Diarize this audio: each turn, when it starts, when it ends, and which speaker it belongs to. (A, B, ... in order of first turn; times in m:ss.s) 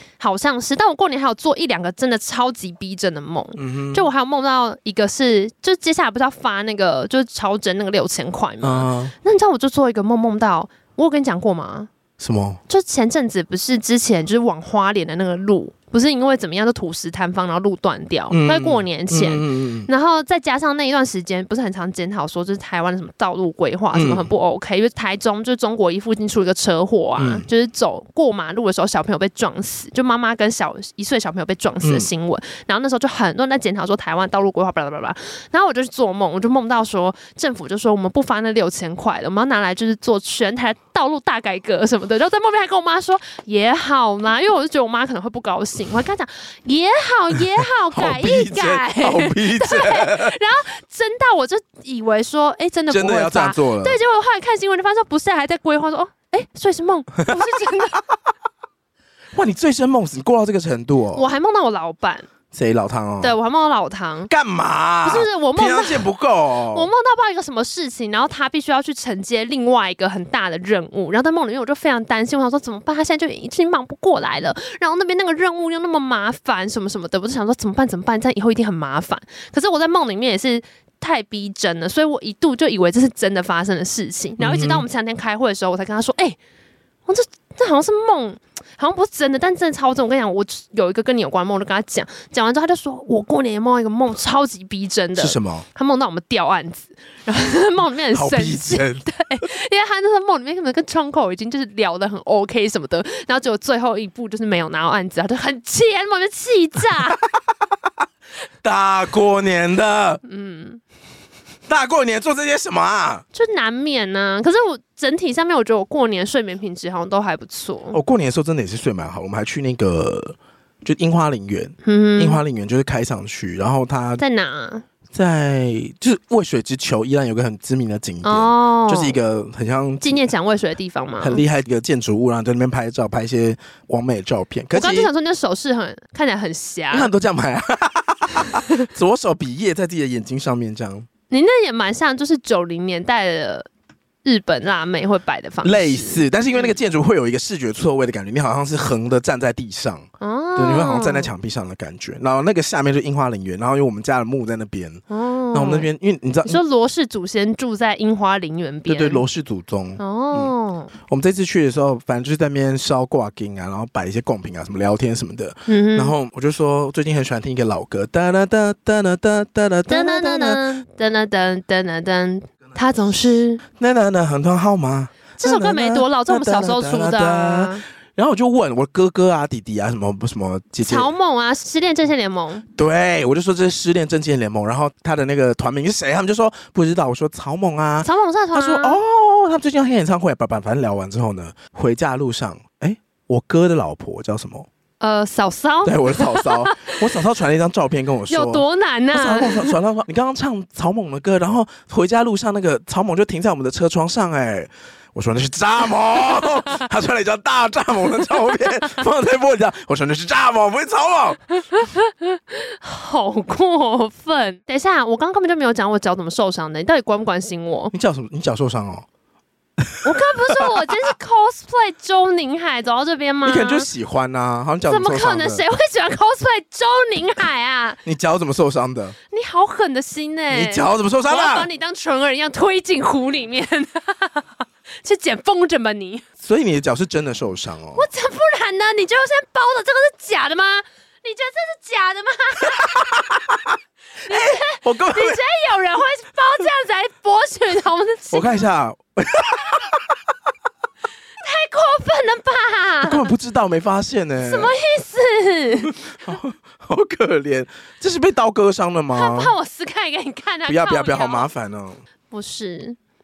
0:00.2-0:11.9 A
0:03.6-0:04.1 B
0:08.6-0:09.1 B
0:12.2-0:12.6 B
0:12.7-0:58.0 A
0:18.3-0:19.9 B
0:23.9-0:24.3 B
0:27.2-0:27.5 B
0:31.8-0:32.1 B
0:47.9-0:50.4 B
0:52.9-0:54.0 B
0:59.3-1:01.2 B
1:01.1-1:02.3 A
1:02.5-1:03.4 B
1:03.2-1:04.3 A
1:04.3-1:06.9 B
1:05.0-1:06.1 A
1:06.7-1:26.4 A
1:24.4-1:24.8 B
1:27.1-1:47.2 A
1:35.2-1:35.6 B
1:38.1-1:39.1 B
1:48.6-1:50.2 B
1:50.2-1:50.8 A
1:51.7-1:53.2 B
1:53.3-1:58.0 A
1:57.9-2:04.2 B
2:01.8-2:02.4 A
2:04.2-2:04.8 A
2:05.1-2:10.3 B
2:08.2-2:09.2 A
2:10.0-2:11.4 A
2:11.2-2:15.1 B
2:14.7-2:17.1 A
2:16.9-2:21.1 B
2:21.3-2:23.7 A
2:24.2-2:26.7 A
2:25.6-2:36.6 B
2:30.2-2:31.3 A
2:35.1-2:35.9 A
2:36.4-2:39.2 A
2:38.9-2:40.5 B
2:40.0-2:40.9 A
2:41.1-2:50.8 B
2:45.7-2:46.2 A
2:49.9-2:53.6 A
2:53.8-3:01.1 B
2:55.4-2:57.8 A
3:00.8-3:02.6 A
3:02.8-3:14.7 B
3:08.0-3:09.0 A
3:15.0-3:17.0 A
3:15.8-3:31.4 B
3:18.3-3:19.8 A
3:31.7-3:37.9 A
3:37.9-3:39.1 B
3:40.0-3:43.9 A
3:43.4-3:45.6 B
3:44.9-3:48.0 A
3:48.0-3:49.2 B
3:49.3-3:54.5 A
3:50.5-3:51.7 B
3:55.0-3:56.2 A
3:56.4-3:58.1 B
3:58.0-4:03.1 A
4:03.2-4:03.5 B
4:04.3-4:08.7 A
4:04.3-4:05.4 B
4:08.3-4:10.2 B
4:11.4-4:13.3 A
4:13.0-4:14.7 B
4:14.4-4:16.0 A
4:16.1-4:19.5 B
4:19.1-4:21.5 A
4:20.7-4:22.0 B
4:22.3-4:23.0 A